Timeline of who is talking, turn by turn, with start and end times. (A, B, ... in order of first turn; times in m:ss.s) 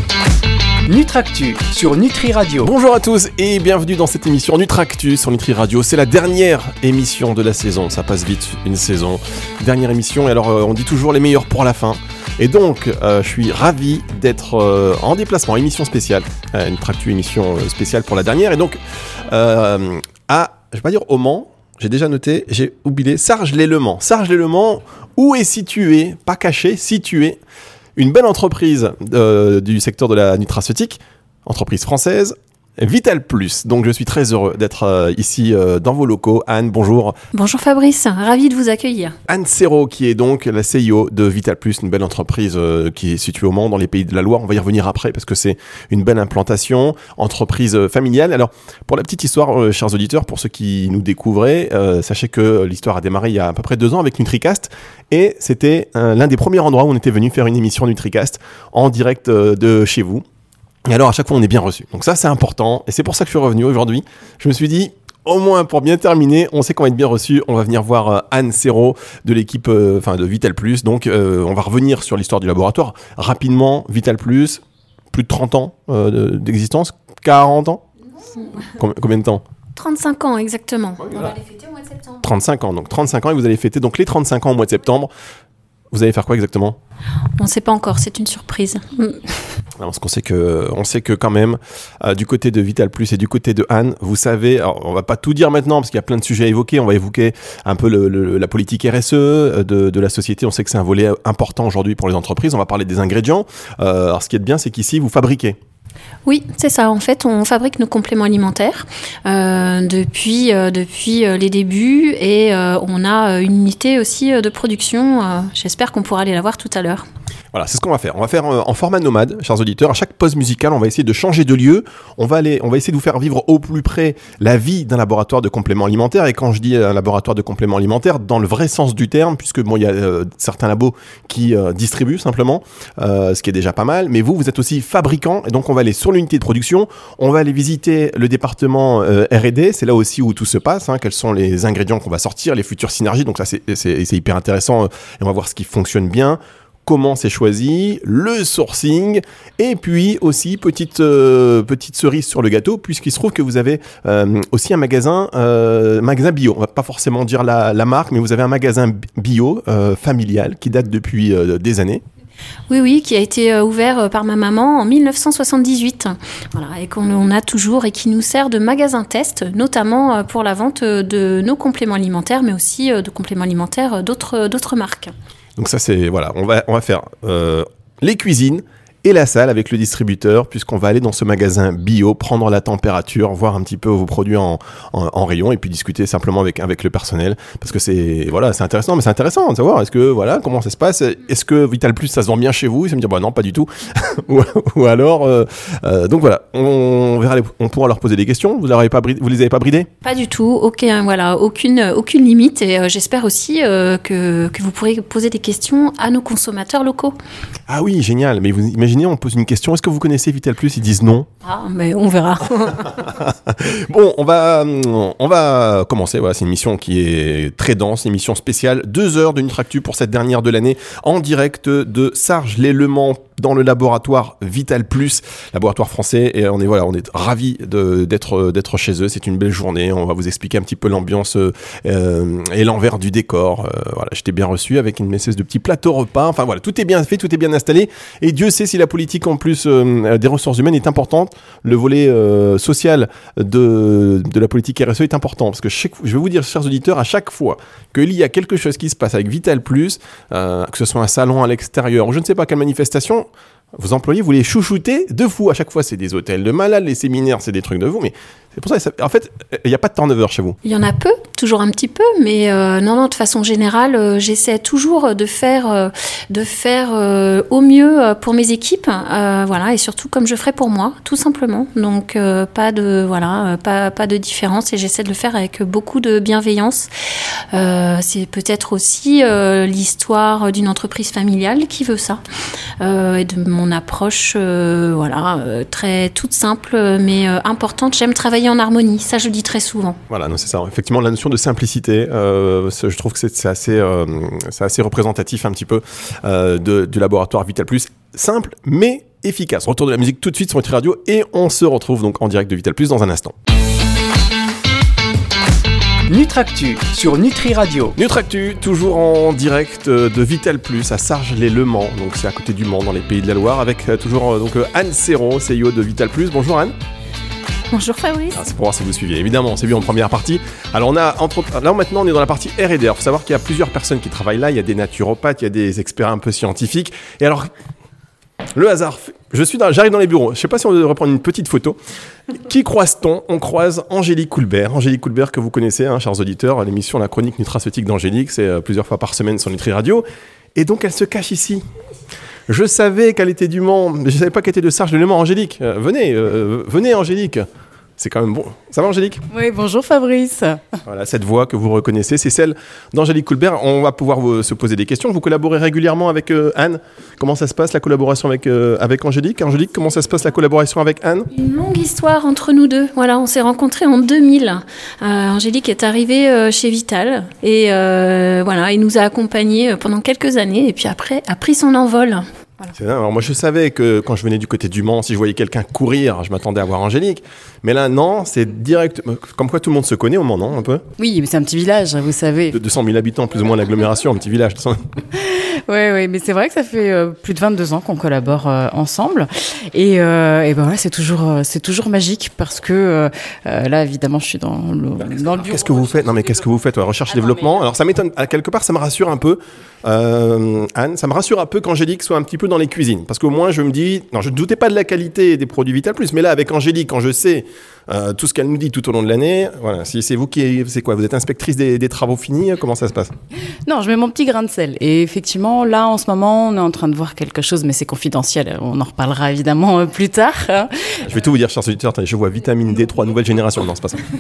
0:00.9-0:02.7 A
0:02.6-0:27.4 B
0:28.0-0:37.2 B
0:37.3-0:39.2 C
0:39.3-1:00.2 B
1:00.9-1:14.6 B
1:15.1-1:17.8 B
1:18.7-1:19.4 B
1:19.8-1:22.1 C
1:21.0-1:21.3 B
1:22.2-1:25.1 B
1:25.9-1:26.8 B
1:27.4-1:29.4 C
1:29.8-1:45.6 B
1:46.3-1:57.0 C
1:57.5-2:42.0 B
2:42.7-2:55.1 C
2:55.6-3:19.9 B
3:20.0-3:27.2 C
3:27.7-3:31.3 B
3:31.4-3:33.0 C
3:33.1-4:20.6 B
4:20.6-4:36.9 C
4:37.5-4:42.2 C
4:42.8-4:50.0 C
4:50.1-5:03.3 B
5:06.1-5:07.9 A
5:08.0-5:16.8 B
5:17.7-5:18.4 C
5:18.3-5:27.5 B
5:28.6-5:31.8 B
5:32.3-5:40.0 B
5:40.6-5:41.6 B
5:42.5-5:47.5 B
5:48.0-5:49.2 B
5:49.3-5:50.6 D
5:50.9-6:01.3 B
6:01.3-6:12.7 C
6:12.7-6:20.8 B
6:21.0-6:22.6 D
6:22.5-6:24.9 B
6:25.2-6:35.9 D
6:35.0-6:53.1 B
6:37.1-6:37.4 D
6:53.7-7:01.0 D
7:01.0-7:04.1 B